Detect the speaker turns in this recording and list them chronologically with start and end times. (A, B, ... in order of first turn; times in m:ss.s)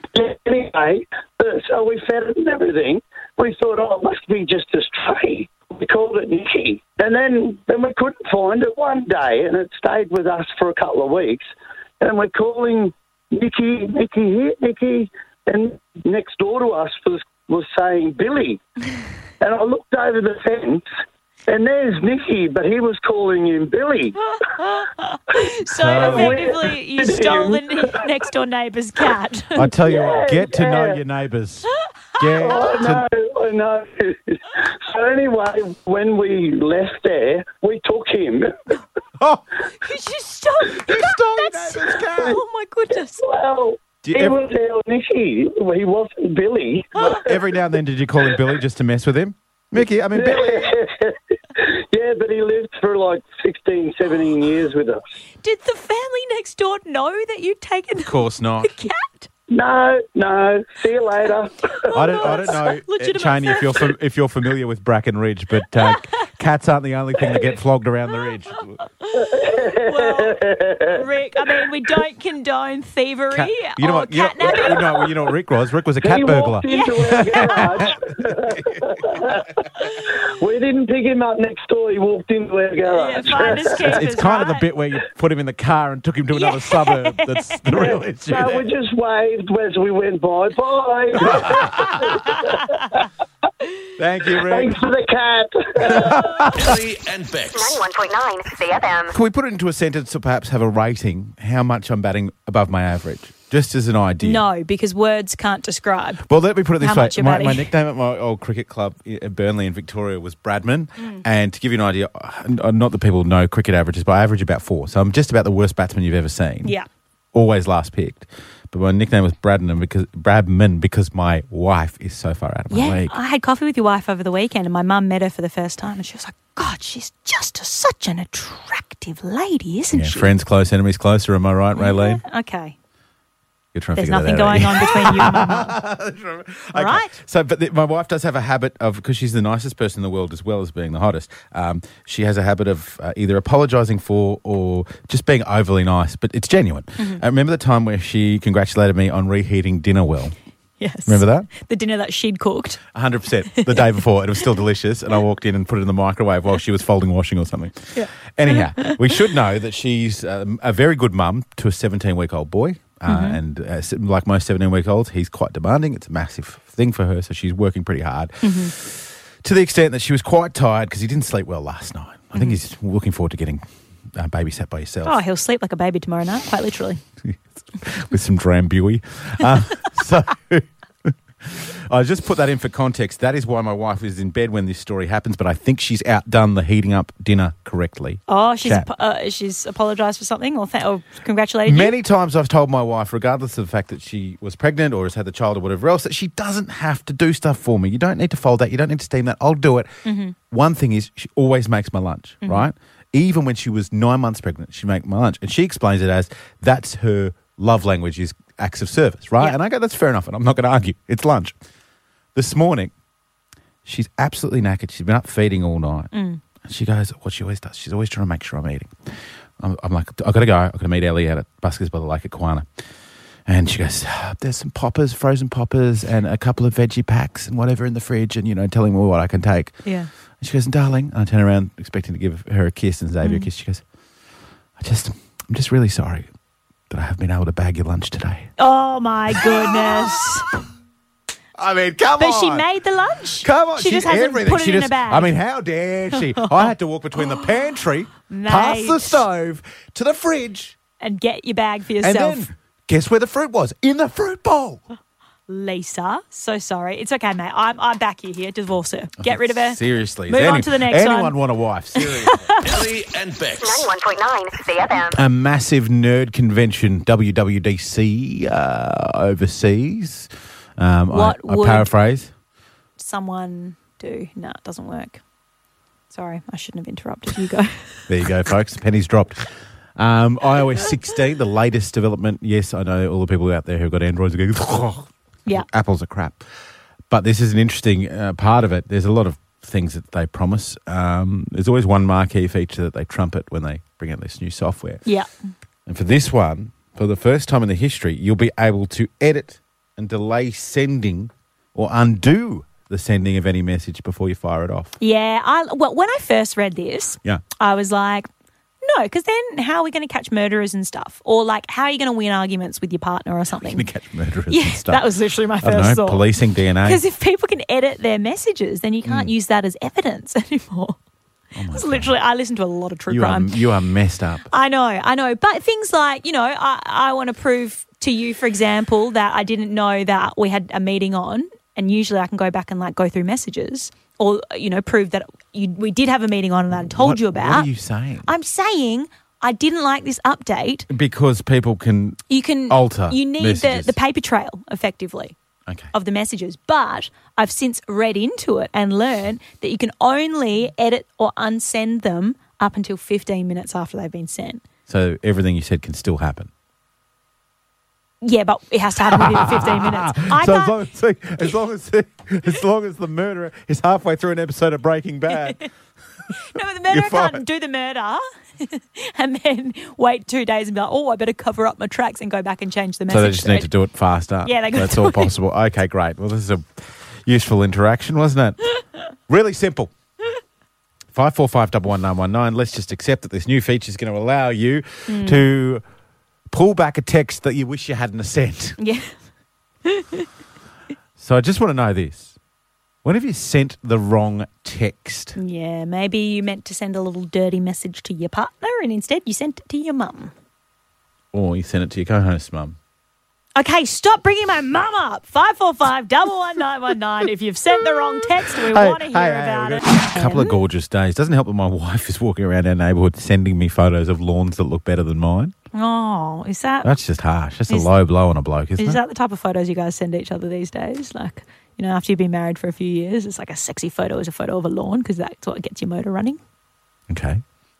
0:00.1-0:11.5 A
0:12.0-0:18.6 A
0:19.4-0:20.8 A
0:21.5-0:24.2 A
0:24.3-0:29.7 B
0:25.7-0:26.5 C
0:25.9-0:28.0 A
0:29.6-0:33.1 C
0:29.7-0:31.0 A
0:32.2-0:32.5 B
0:32.4-0:38.6 A
0:39.2-0:39.5 C
0:39.8-0:43.2 B
0:40.7-0:42.4 C
0:43.2-0:47.4 A
0:44.0-0:44.4 C
0:47.0-0:47.2 B
0:47.0-0:50.8 C
0:50.1-0:55.0 A
0:55.4-0:59.3 B
0:58.0-0:58.8 C
0:59.5-1:02.5 A
1:01.9-1:03.9 B
1:01.9-1:08.8 C
1:05.8-1:06.1 B
1:09.0-1:15.0 B
1:09.1-1:11.0 A
1:13.3-1:19.4 C
1:16.0-1:24.0 A
1:16.6-1:18.0 B
1:22.9-1:24.7 B
1:23.3-1:28.7 C
1:26.3-1:27.6 B
1:27.7-1:33.1 A
1:31.3-1:32.1 C
1:34.0-1:34.8 C
1:34.3-1:36.5 A
1:35.8-1:36.8 C
1:36.5-1:37.8 D
1:37.6-1:39.2 E
1:39.1-1:44.4 C
1:44.2-1:46.3 B
1:46.3-1:56.8 C
1:46.8-1:47.7 B
1:51.0-1:51.2 B
1:57.3-2:03.2 C
2:02.7-2:10.3 B
2:09.9-2:12.2 C
2:11.8-2:12.8 B
2:13.7-2:30.4 C
2:14.0-2:15.8 B
2:16.8-2:17.2 B
2:30.8-2:32.8 B
2:31.1-2:31.5 C
2:32.9-2:55.2 C
2:33.6-2:33.8 B
2:37.9-2:39.1 B
2:43.1-2:43.4 B
2:48.4-2:48.7 B
2:55.0-2:57.0 B
2:57.2-3:08.9 C
3:08.3-3:12.0 B
3:11.7-3:19.9 C
3:20.0-3:20.4 B
3:20.5-3:31.5 C
3:32.4-3:32.9 C
3:33.8-3:39.1 C
3:36.1-3:36.4 B
3:39.6-3:42.7 C
3:43.5-3:49.8 C
3:49.8-3:50.1 B
3:50.4-3:53.8 C
3:53.2-3:53.5 B
3:54.8-3:56.3 C
3:56.9-3:58.5 C
3:58.6-4:00.5 B
3:59.3-4:00.2 C
4:01.6-4:02.7 C
4:02.2-4:05.3 B
4:03.4-4:10.8 C
4:06.1-4:06.7 B
4:08.3-4:09.2 B
4:11.0-4:12.5 B
4:12.0-4:14.8 C
4:15.5-4:21.4 B
4:19.2-4:22.5 C
4:22.0-4:22.6 B
4:22.6-4:23.9 D
4:23.6-4:25.2 E
4:25.1-4:32.3 C
4:31.1-4:31.9 B
4:33.0-4:35.2 B
4:36.1-4:38.0 B
4:38.1-4:39.5 C
4:40.0-4:46.4 C
4:47.1-4:55.0 C
4:55.9-5:05.0 C
5:05.0-5:08.3 B
5:08.8-5:13.9 B
5:13.6-5:15.1 C
5:14.5-5:16.2 B
5:15.6-5:17.0 C
5:16.8-5:21.0 B
5:19.0-5:19.3 C
5:21.6-5:22.1 C
5:21.7-5:23.5 B
5:23.1-5:24.5 C
5:24.5-5:37.7 B
5:36.8-5:38.3 C
5:38.2-5:40.9 B
5:40.9-5:44.0 C
5:42.3-5:45.4 B
5:45.9-5:54.6 B
5:54.9-5:56.5 C
5:58.2-6:00.8 B
5:59.0-6:05.6 C
6:05.3-6:05.7 B
6:06.4-6:13.7 B
6:06.9-6:07.4 C
6:13.1-6:18.6 C
6:14.4-6:15.3 B
6:19.3-6:19.9 C
6:21.1-6:25.8 C
6:25.1-6:25.4 B
6:26.5-6:28.8 C
6:28.8-6:29.1 B
6:29.9-6:30.3 B
6:31.2-6:32.4 C
6:33.0-6:35.4 C
6:35.4-6:40.3 B
6:41.3-6:42.8 C
6:43.6-6:50.6 B
6:48.5-6:55.5 C
6:55.7-6:56.9 B
6:56.8-6:59.0 C
6:58.8-7:06.4 B
7:07.1-7:07.4 C